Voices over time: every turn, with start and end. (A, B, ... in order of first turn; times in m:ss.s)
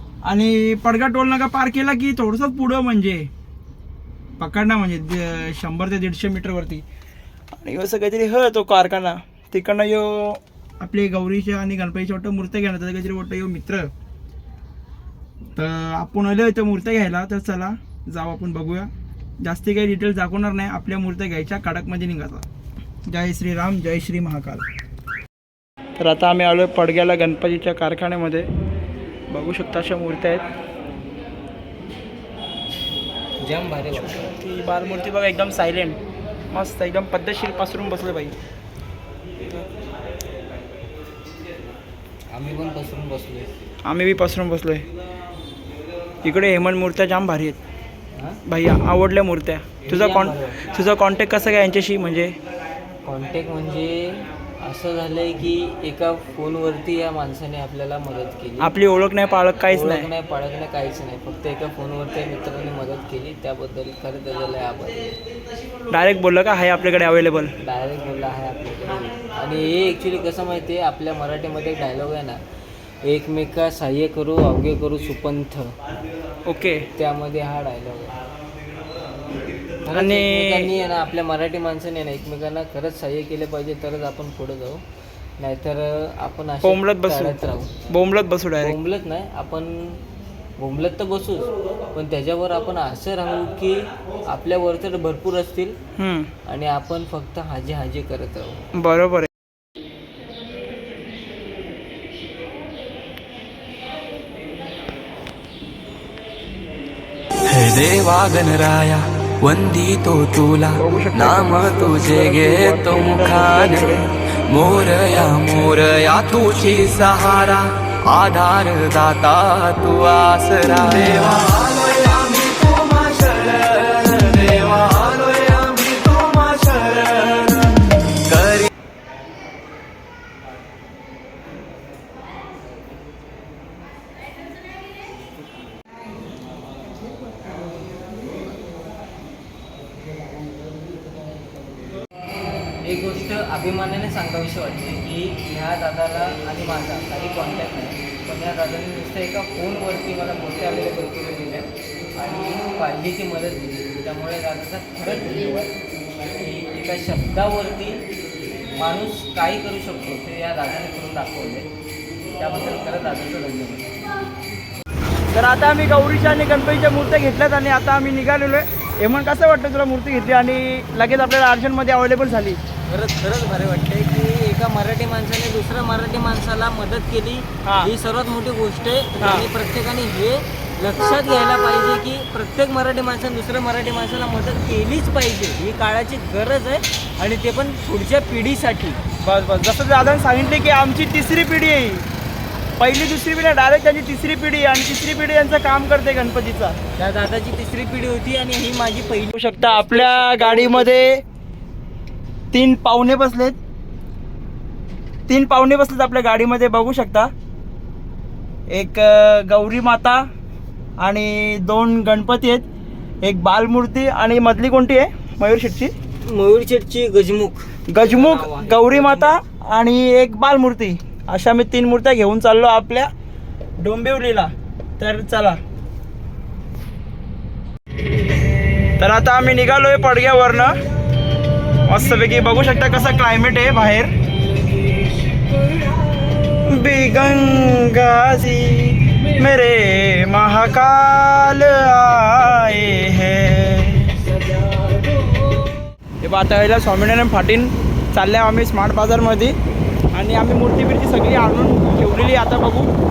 0:00.2-0:03.3 A
0:04.4-0:06.8 A
0:07.6-0:13.9 A
0:15.5-0:18.9 A
0:19.4-0:22.4 A
0:23.1-0:24.6 A
0:26.0-0:28.5 A
0:29.3-0:30.4 A
0:33.4-0:34.2 B
0:33.9-0:36.0 A
0:36.5-0:38.3 A
0:42.3-0:43.5 B
0:43.8-0:44.8 A
0:46.2-0:47.6 A
0:48.1-0:48.4 B
0:48.4-0:52.4 A
0:49.8-0:50.6 B
0:53.0-0:58.8 B
0:58.6-1:00.1 A
0:59.7-1:05.1 B
1:05.9-1:07.5 A
1:07.6-1:12.4 B
1:13.0-1:15.8 B
1:16.4-1:16.9 A
1:17.0-1:18.2 B
1:19.8-1:24.8 B
1:19.9-1:20.7 A
1:25.4-1:27.8 B
1:26.6-1:28.8 A
1:28.6-1:30.0 B
1:30.6-1:35.8 B
1:36.0-1:36.3 A
1:36.4-1:38.6 B
1:38.7-1:39.3 A
1:47.4-2:08.7 C
1:50.7-1:54.0 A
2:22.8-2:35.7 B
2:36.3-2:38.0 B
2:38.7-2:41.7 B
2:42.4-2:43.9 B
2:45.3-2:52.6 A
2:52.9-3:09.0 B
2:57.6-2:57.9 A
2:59.2-2:59.5 A
3:09.2-3:12.0 A
3:12.8-3:16.8 A
3:17.0-3:21.1 B
3:19.3-3:21.2 A
3:22.5-3:23.6 A
3:25.3-3:27.3 A
3:28.7-3:30.2 A
3:31.0-3:32.6 A
3:33.2-3:35.9 A
3:36.2-3:39.4 B
3:37.9-3:43.1 A
3:43.8-3:45.6 A
3:49.0-3:50.7 A
3:51.8-3:54.1 A
3:56.4-4:04.4 A
4:06.2-4:09.6 A
4:10.1-4:12.9 A